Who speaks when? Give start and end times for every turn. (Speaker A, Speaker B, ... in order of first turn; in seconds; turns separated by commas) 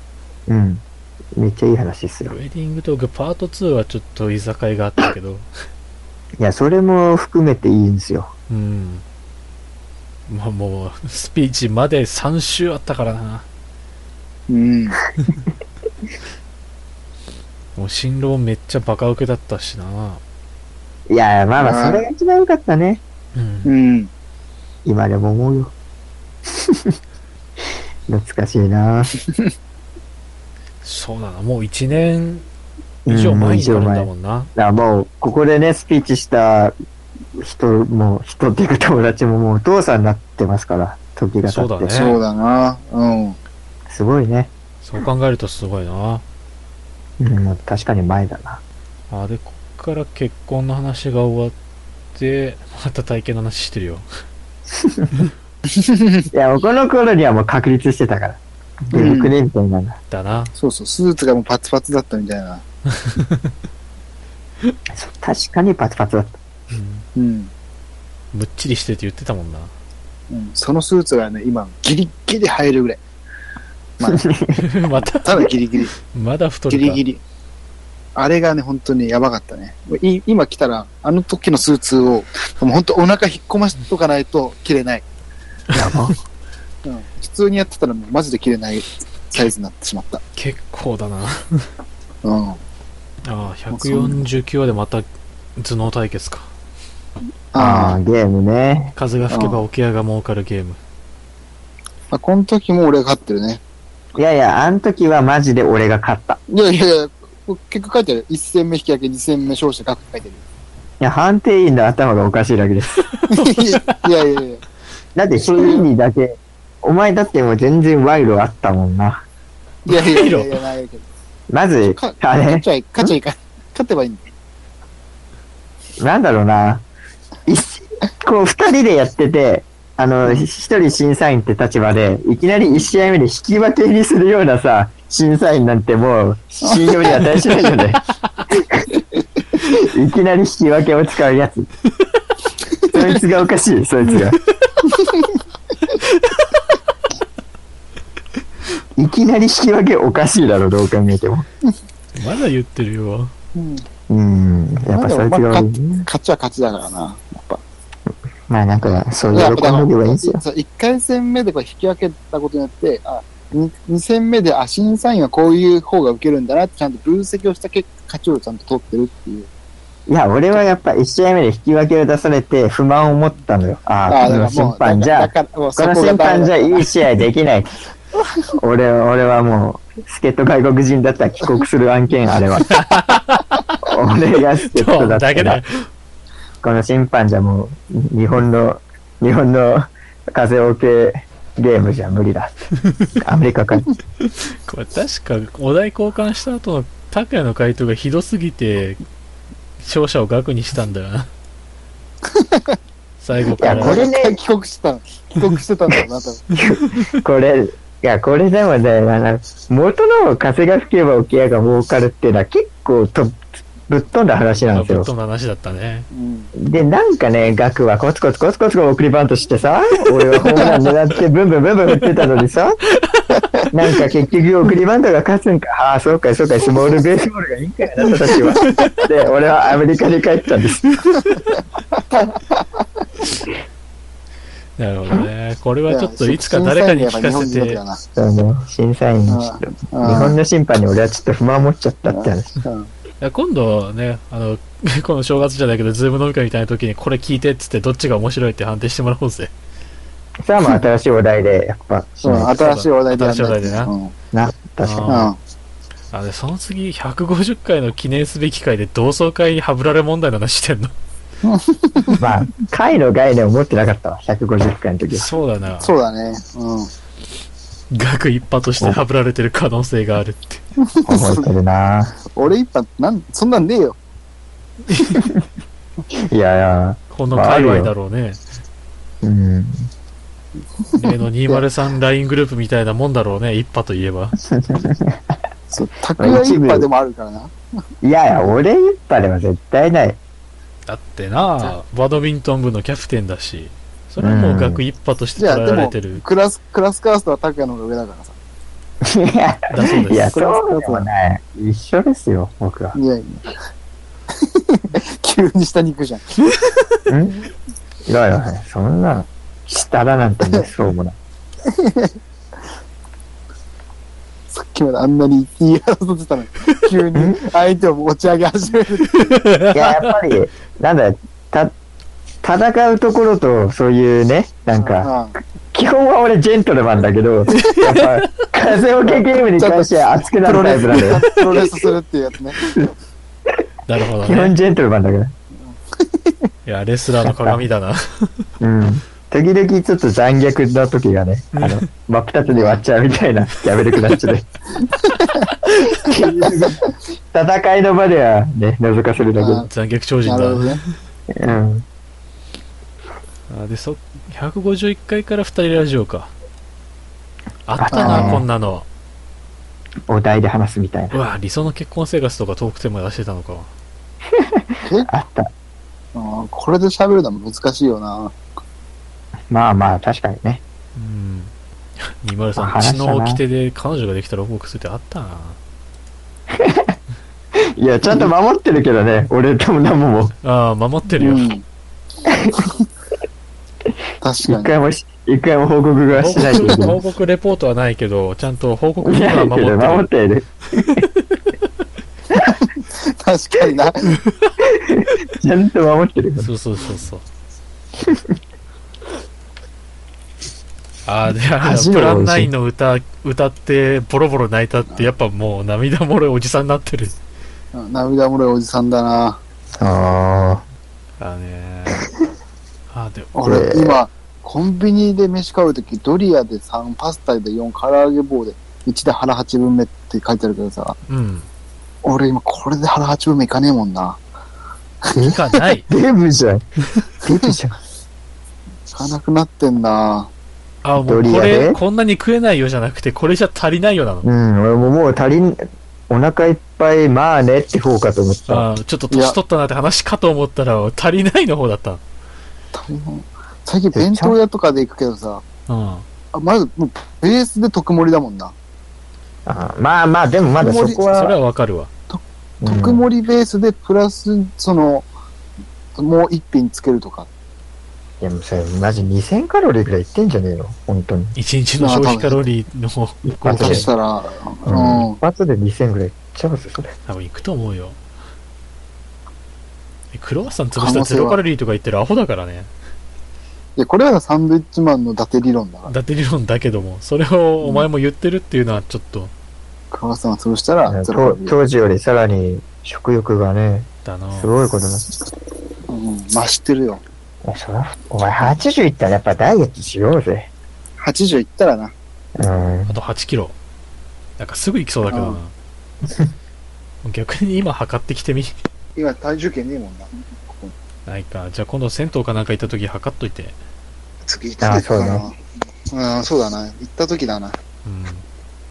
Speaker A: 0.5-0.8, Speaker A: 1.4-2.4, Speaker B: 2.2-5.5, Speaker A: 6.4-8.3, Speaker B: 8.5-9.0, Speaker B: 10.3-13.5, Speaker C: 14.5-15.0, Speaker B: 17.8-20.2, Speaker A: 21.1-23.0, Speaker C: 21.6-22.0, Speaker B: 23.4-23.7, Speaker C: 23.6-24.1, Speaker A: 24.9-25.7, Speaker A: 26.5-27.0, Speaker A: 28.1-29.1, Speaker B: 30.8-32.5, Speaker A: 33.1-36.8, Speaker B: 33.1-34.5, Speaker A: 37.4-42.1, Speaker B: 41.5-42.2, Speaker C: 41.9-43.4, Speaker A: 43.9-44.5, Speaker B: 44.8-46.2, Speaker A: 47.2-48.6, Speaker B: 49.1-51.5, Speaker B: 52.1-54.1, Speaker A: 54.7-55.1, Speaker C: 55.7-56.2, Speaker A: 56.3-60.0, Speaker C: 58.9-59.3, Speaker B: 60.1-60.5, Speaker C: 60.6-62.6, Speaker B: 63.0-63.5, Speaker A: 64.9-66.4, Speaker B: 66.7-67.0, Speaker C: 67.2-67.5, Speaker B: 68.3-69.7, Speaker C: 70.3-73.0, Speaker C: 74.0-74.3, Speaker A: 74.1-74.6, Speaker B: 74.5-75.5, Speaker C: 75.0-76.0, Speaker B: 76.1-77.0, Speaker C: 76.7-77.2, Speaker C: 78.2-85.0, Speaker A: 85.7-86.2, Speaker C: 86.8-90.2, Speaker B: 90.4-91.7, Speaker C: 92.2-92.6, Speaker B: 93.2-96.5, Speaker C: 93.7-94.2, Speaker C: 97.5-98.0, Speaker A: 97.6-99.0, Speaker B: 99.0-100.8, Speaker C: 99.3-99.6, Speaker C: 102.1-103.6, Speaker A: 104.2-106.4, Speaker C: 106.5-110.4, Speaker A: 111.0-113.0, Speaker B: 113.2-114.0, Speaker C: 113.3-114.6, Speaker A: 115.2-119.2, Speaker C: 115.4-115.9, Speaker C: 119.9-121.1, Speaker B: 119.9-120.5, Speaker A: 121.5-123.1, Speaker C: 121.9-124.3, Speaker A: 126.0-126.9, Speaker A: 127.5-138.9, Speaker C: 136.6-137.3, Speaker A: 139.6-141.7, Speaker A: 142.9-144.4, Speaker C: 144.9-145.3, Speaker B: 146.0-146.5, Speaker A: 149.0-151.5, Speaker B: 152.2-153.3, Speaker C: 153.6-153.8, Speaker A: 154.1-156.1, Speaker C: 154.9-157.6, Speaker A: 158.5-160.4, Speaker C: 159.3-169.5, Speaker A: 170.1-177.7, Speaker C: 174.1-176.9, Speaker A: 178.6-182.7, Speaker B: 182.7-183.8, Speaker A: 183.8-185.6, Speaker B: 184.7-185.9, Speaker A: 186.6-192.5, Speaker A: 193.2-193.9, Speaker B: 194.2-199.0, Speaker B: 199.8-201.3, Speaker C: 202.3-202.7, Speaker B: 203.2-204.0, Speaker A: 203.6-204.4, Speaker C: 203.6-206.5, Speaker A: 206.6-215.1, Speaker B: 206.8-207.2, Speaker B: 214.8-216.1, Speaker C: 216.1-216.5, Speaker A: 216.6-222.8, Speaker B: 223.1-223.4, Speaker A: 223.7-230.8, Speaker B: 234.8-237.8, Speaker C: 235.9-238.0, Speaker A: 238.2-242.6, Speaker C: 239.3-240.4, Speaker C: 242.1-242.9, Speaker B: 243.2-249.5, Speaker A: 250.4-252.5, Speaker C: 252.2-254.1, Speaker B: 252.6-253.9, Speaker A: 254.3-255.3, Speaker B: 254.8-255.3, Speaker C: 255.1-255.4, Speaker B: 256.1-260.9, Speaker C: 261.4-262.2, Speaker A: 262.2-265.3, Speaker B: 265.1-265.9, Speaker C: 265.8-266.9, Speaker B: 267.9-270.6, Speaker C: 270.9-271.5, Speaker A: 271.1-272.1, Speaker C: 272.3-274.0, Speaker B: 274.9-275.2, Speaker A: 276.1-277.9, Speaker B: 277.1-278.4, Speaker A: 279.2-279.9, Speaker C: 281.0-281.6, Speaker B: 281.0-284.4, Speaker A: 284.4-285.2, Speaker C: 285.7-287.5, Speaker A: 286.2-286.9, Speaker A: 288.0-290.2, Speaker B: 290.9-296.2, Speaker A: 294.2-294.8, Speaker C: 295.4-298.4, Speaker A: 299.0-303.0, Speaker B: 299.7-300.4, Speaker C: 300.3-301.1, Speaker C: 302.9-303.6, Speaker C: 304.4-306.2, Speaker A: 307.1-307.5, Speaker A: 308.1-311.2, Speaker C: 311.6-312.1, Speaker C: 314.5-319.4, Speaker A: 317.1-317.4, Speaker B: 319.2-320.0, Speaker A: 319.7-321.7, Speaker A: 322.4-325.1, Speaker C: 324.8-325.4, Speaker A: 325.7-331.2, Speaker B: 327.6-328.1, Speaker C: 329.1-332.6, Speaker B: 333.9-334.6, Speaker A: 334.2-335.3, Speaker B: 336.7-338.4, Speaker A: 337.2-337.6, Speaker A: 338.6-344.5, Speaker B: 341.5-341.9, Speaker C: 342.5-342.8, Speaker C: 344.8-345.5, Speaker A: 345.8-349.6, Speaker C: 349.4-349.7, Speaker B: 349.7-350.8, Speaker C: 350.3-350.8, Speaker A: 351.3-351.9, Speaker B: 353.5-356.3, Speaker B: 357.7-358.9, Speaker A: 357.8-358.5, Speaker C: 357.9-358.4, Speaker A: 360.1-361.1, Speaker B: 361.1-363.7, Speaker A: 364.3-365.5, Speaker C: 366.1-368.4, Speaker A: 369.5-370.6, Speaker B: 371.0-371.5, Speaker B: 372.2-375.6, Speaker A: 372.6-373.4, Speaker A: 376.5-376.9, Speaker A: 377.6-380.3, Speaker B: 380.4-381.5, Speaker C: 381.2-381.6, Speaker A: 382.2-382.7, Speaker C: 384.2-384.7, Speaker A: 384.4-387.0, Speaker B: 386.1-390.1, Speaker A: 389.0-391.1, Speaker C: 392.3-394.2, Speaker B: 394.2-394.6, Speaker A: 394.6-396.5, Speaker B: 396.4-397.2, Speaker A: 398.0-398.4, Speaker B: 401.1-407.1, Speaker A: 401.6-402.5, Speaker C: 407.7-409.4, Speaker A: 409.8-410.6, Speaker B: 411.2-412.1, Speaker B: 412.9-413.3, Speaker C: 413.4-421.0, Speaker A: 413.4-414.0, Speaker B: 421.1-421.5, Speaker C: 422.0-424.2, Speaker C: 425.1-425.4, Speaker B: 425.2-425.9, Speaker A: 425.9-426.6, Speaker A: 427.2-427.8, Speaker C: 428.9-430.3, Speaker B: 430.8-434.3, Speaker A: 431.1-431.8, Speaker A: 434.2-438.7, Speaker B: 438.5-442.0, Speaker C: 442.7-445.4, Speaker A: 443.9-444.4, Speaker B: 445.7-446.1, Speaker C: 446.3-448.5, Speaker A: 449.5-451.4, Speaker C: 450.6-451.0, Speaker B: 451.1-451.9, Speaker C: 452.1-455.1, Speaker A: 452.6-453.1, Speaker C: 456.0-457.3, Speaker A: 458.2-461.4, Speaker B: 461.4-463.9, Speaker C: 461.8-462.4, Speaker A: 463.4-463.9, Speaker C: 463.5-465.2, Speaker A: 464.7-466.9, Speaker B: 467.1-468.0, Speaker B: 470.1-472.7, Speaker C: 470.8-471.4, Speaker C: 473.8-475.9, Speaker B: 475.9-479.3, Speaker C: 479.9-481.5, Speaker A: 480.9-485.2, Speaker B: 484.1-484.5, Speaker C: 485.9-487.0, Speaker A: 487.4-490.5, Speaker C: 491.0-491.9, Speaker A: 492.4-493.0, Speaker B: 492.9-493.6, Speaker B: 494.4-495.5, Speaker C: 495.1-495.4, Speaker A: 496.1-496.3, Speaker B: 497.0-498.5, Speaker C: 499.0-500.7, Speaker B: 501.1-503.6, Speaker C: 504.3-505.4, Speaker A: 504.6-505.2, Speaker C: 505.9-507.6, Speaker B: 507.9-508.2